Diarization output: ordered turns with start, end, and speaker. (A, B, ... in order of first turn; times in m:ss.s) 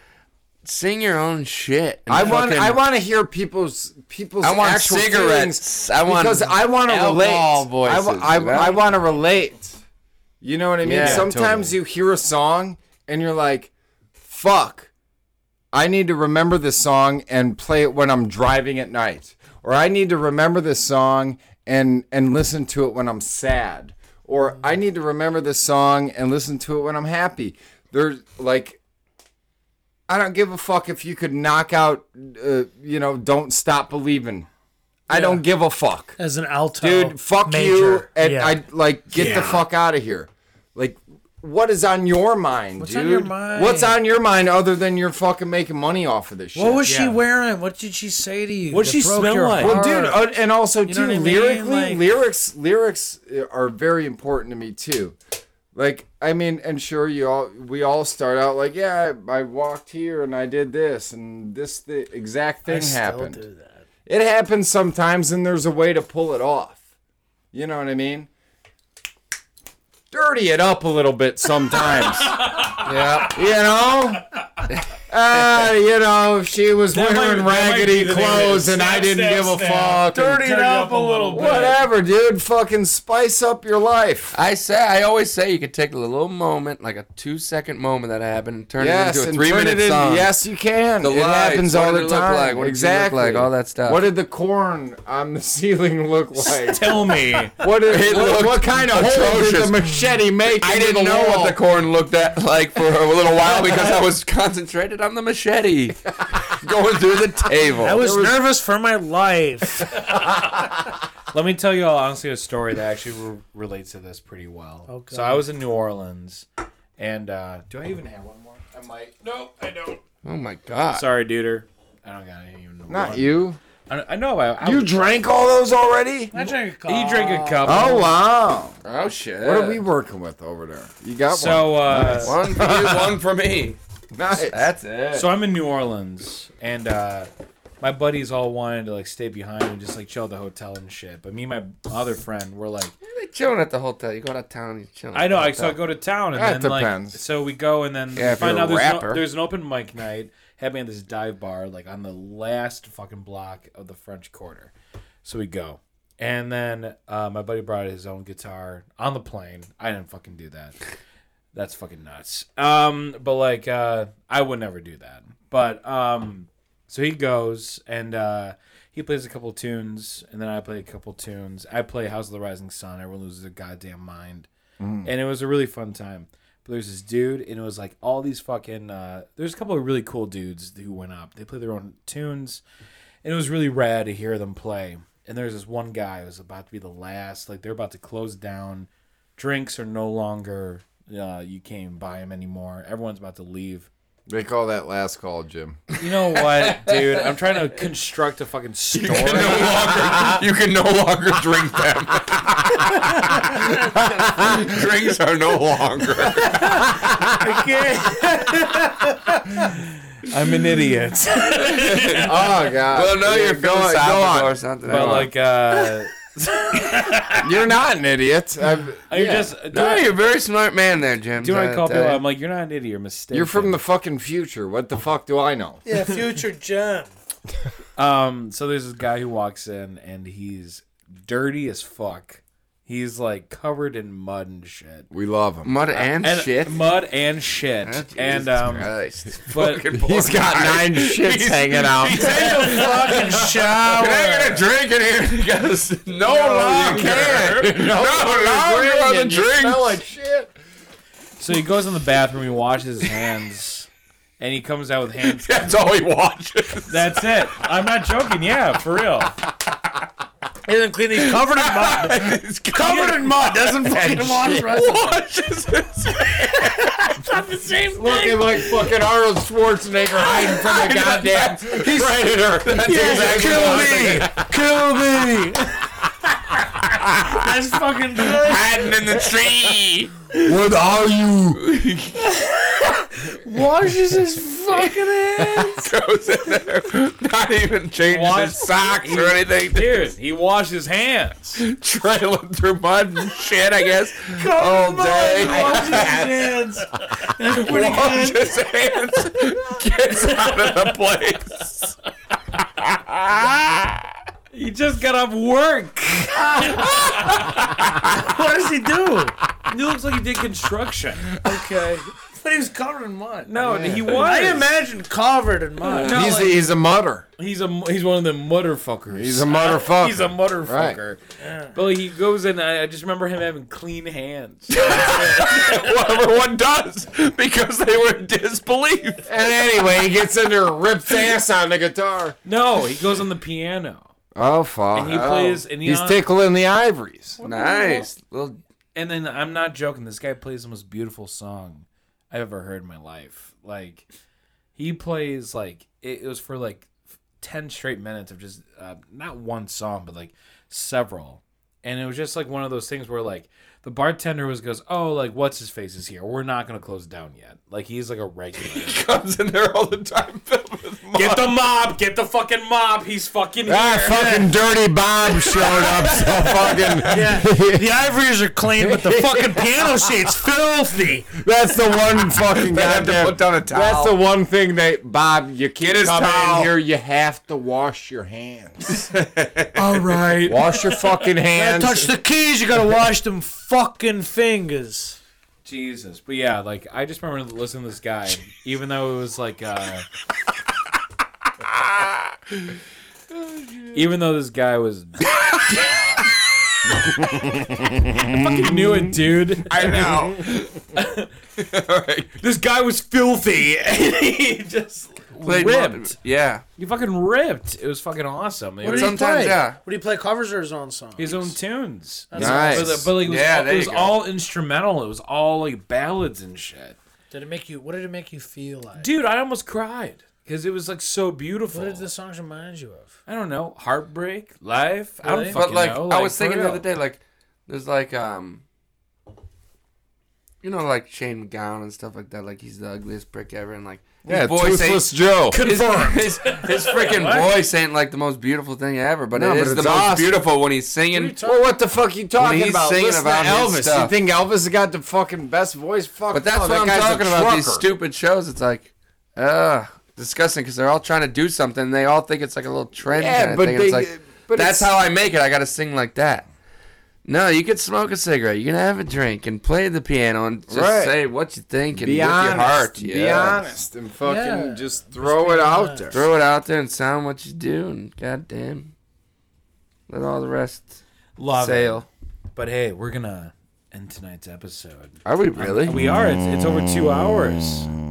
0:00.6-0:02.8 A
0:02.1-0:09.8 B
0:04.4-0:08.8 A
0:10.4-0:13.7 B
0:10.8-0:11.3 A
0:10.9-0:11.7 C
0:14.2-0:14.9 B
0:15.7-0:28.8 B
0:30.1-0:34.5 B
0:35.1-0:36.2 B
0:35.1-0:35.4 D
0:36.2-0:38.6 D
0:36.8-0:46.8 B
0:39.1-0:39.6 D
0:39.2-0:39.4 C
0:42.8-0:43.9 D
0:46.5-0:50.2 D
0:46.8-0:47.2 C
0:48.7-0:49.8 C
0:49.6-0:55.2 B
0:50.8-0:52.0 D
0:55.7-1:03.4 B
1:02.7-1:03.8 D
1:04.1-1:06.8 B
1:07.5-1:08.3 B
1:10.1-1:14.2 B
1:12.1-1:13.2 C
1:12.8-1:13.4 A
1:15.1-1:20.4 B
1:16.9-1:21.8 C
1:20.1-1:21.8 D
1:21.3-1:24.4 B
1:24.3-1:30.3 A
1:28.8-1:41.6 B
1:31.0-1:34.0 A
1:36.6-1:37.6 C
1:37.8-1:39.8 A
1:40.6-1:48.0 A
1:47.8-1:50.0 D
1:47.9-1:48.4 B
1:50.0-1:50.7 C
1:51.3-1:56.4 C
1:54.9-1:55.4 D
1:57.0-2:00.0 C
2:00.2-2:01.0 A
2:00.9-2:04.9 C
2:02.9-2:03.6 B
2:04.6-2:06.3 B
2:06.3-2:08.0 D
2:06.3-2:08.1 C
2:07.6-2:08.7 B
2:08.8-2:09.8 A
2:09.4-2:13.2 B
2:11.3-2:12.3 C
2:12.2-2:13.8 A
2:14.1-2:14.6 B
2:14.4-2:15.3 A
2:15.1-2:17.3 C
2:17.8-2:22.9 C
2:23.0-2:25.8 A
2:25.1-2:34.7 C
2:26.4-2:27.2 B
2:28.2-2:29.2 A
2:35.2-2:40.8 C
2:41.5-2:54.5 C
2:54.8-2:55.1 B
2:55.0-3:02.6 C
3:03.2-3:13.9 C
3:14.3-3:15.8 B
3:16.0-3:20.2 C
3:16.5-3:17.0 A
3:18.9-3:26.8 A
3:20.0-3:20.4 B
3:24.0-3:24.8 B
3:26.4-3:29.7 D
3:26.8-3:27.3 B
3:30.2-3:32.3 C
3:31.6-3:32.4 A
3:32.2-3:35.3 B
3:32.9-3:35.3 A
3:34.8-3:37.5 C
3:37.4-3:39.5 B
3:39.1-3:40.1 C
3:39.7-3:42.2 A
3:41.4-3:43.8 C
3:43.3-3:45.8 B
3:45.8-3:47.1 D
3:48.0-3:55.1 C
3:55.1-3:55.7 B
3:55.6-3:56.8 A
3:55.9-3:58.9 C
3:57.8-4:10.0 A
3:59.4-3:59.8 C
3:59.9-4:03.2 B
4:02.2-4:04.6 D
4:06.3-4:10.6 B
4:06.8-4:07.3 C
4:11.4-4:15.8 C
4:15.4-4:17.2 A
4:16.9-4:19.3 C
4:20.6-4:25.2 D
4:21.1-4:27.2 A
4:23.9-4:24.5 B
4:26.5-4:28.8 D
4:27.9-4:34.5 B
4:30.2-4:34.4 A
4:32.8-4:35.9 D
4:33.3-4:33.8 C
4:37.2-4:39.1 D
4:38.3-4:40.1 A
4:40.4-4:41.6 B
4:41.6-4:42.2 A
4:42.3-4:45.9 D
4:44.7-4:45.0 A
4:45.5-4:50.0 A
4:48.1-4:51.6 C
4:51.6-4:56.5 A
4:54.3-4:58.6 D
4:57.5-5:01.9 A
5:02.8-5:03.9 A
5:04.5-5:07.5 C
5:06.6-5:09.4 D
5:09.6-5:11.4 C
5:11.4-5:16.2 D
5:13.5-5:14.7 C
5:16.0-5:16.6 C
5:16.1-5:17.3 B
5:17.4-5:21.2 C
5:19.1-5:21.0 B
5:21.4-5:21.8 D
5:21.7-5:25.9 C
5:24.7-5:29.3 A
5:29.3-5:32.4 B
5:32.4-5:34.1 C
5:34.4-5:37.4 B
5:34.9-5:36.2 C
5:37.4-5:38.6 A
5:37.4-5:38.0 D
5:37.5-5:38.0 C
5:38.9-5:44.0 C
5:44.8-5:46.9 C
5:47.4-5:59.0 C
5:58.6-6:01.6 A
6:01.1-6:04.4 C
6:03.6-6:07.8 B
6:04.1-6:04.5 D
6:06.1-6:06.9 C
6:07.1-6:11.4 D
6:08.8-6:10.1 B
6:11.3-6:19.1 B
6:12.4-6:14.1 A
6:15.8-6:16.7 A
6:19.8-6:25.2 D
6:20.4-6:22.1 B
6:25.6-6:30.0 C
6:33.5-6:33.8 A
6:33.9-6:35.3 C
6:35.4-6:36.0 A
6:37.2-6:39.1 B
6:38.1-6:40.1 C
6:39.7-6:40.9 A
6:40.9-6:41.3 C
6:41.6-6:42.3 A
6:42.4-6:46.2 C
6:45.4-6:46.6 A
6:46.8-6:49.2 C
6:48.8-6:51.6 D
6:48.8-6:49.8 A
6:51.2-6:57.0 C
6:52.3-6:53.1 D
6:52.3-6:53.1 B
6:53.2-6:54.2 A
6:57.3-6:59.1 D
6:59.0-7:02.0 C
7:01.7-7:03.1 D
7:03.3-7:06.8 C
7:05.2-7:05.6 D
7:05.5-7:08.6 A
7:10.6-7:21.4 A
7:14.2-7:16.1 B
7:15.5-7:16.8 C
7:15.6-7:17.5 D
7:19.3-7:20.4 B
7:21.1-7:21.7 D
7:21.4-7:27.8 B
7:22.4-7:24.1 A
7:26.3-7:36.4 A
7:33.1-7:34.9 B
7:37.2-7:43.7 A
7:40.7-7:41.1 B
7:41.9-7:46.2 B
7:44.2-7:46.1 D
7:46.1-7:48.9 A
7:50.1-7:51.0 A
7:51.4-7:57.9 C
7:51.5-7:52.1 A
7:55.2-7:56.0 A